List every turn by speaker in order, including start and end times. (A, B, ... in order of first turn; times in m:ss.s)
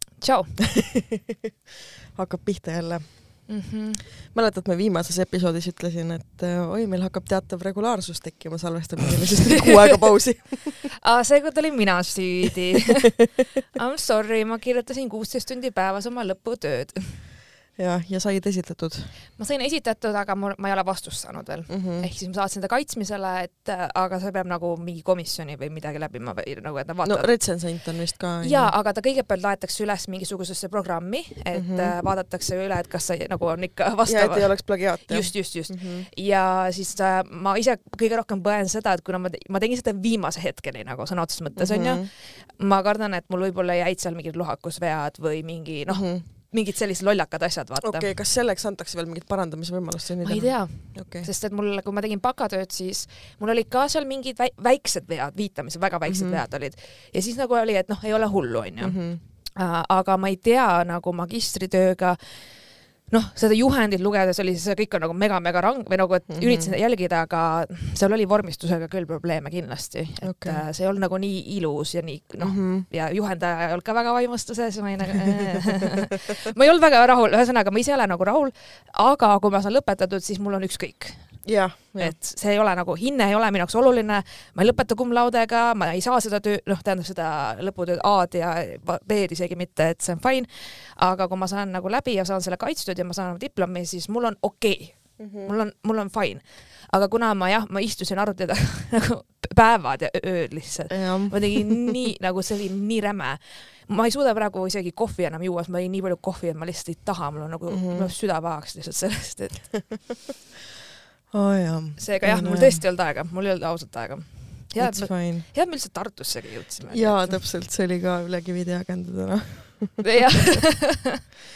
0:00.2-0:00.6 A
0:00.8-0:01.2 B
0:02.1-0:03.6 B
0:03.5-0:04.0 A
0:04.1-0:10.9 B
0:11.0-0:17.3 A
0:17.8-0:19.2 B
0:19.4-0:27.7 A
0:21.7-0:22.1 B
0:27.0-0:28.7 B
0:28.4-0:48.1 A
0:31.5-0:31.9 B
0:34.1-0:36.1 B
0:41.6-0:42.1 B
0:45.9-0:46.2 B
0:47.8-0:51.3 B
0:50.2-1:50.1 A
0:56.1-0:56.4 B
0:58.8-0:59.2 B
1:06.3-1:06.7 B
1:10.2-1:10.6 B
1:12.4-1:12.9 B
1:21.4-1:22.2 B
1:35.2-1:35.5 B
1:40.9-1:41.9 B
1:47.7-1:48.1 B
1:51.3-1:52.8 B
1:52.0-1:57.4 A
1:54.8-1:55.5 B
1:56.9-2:00.2 B
2:00.0-2:01.2 A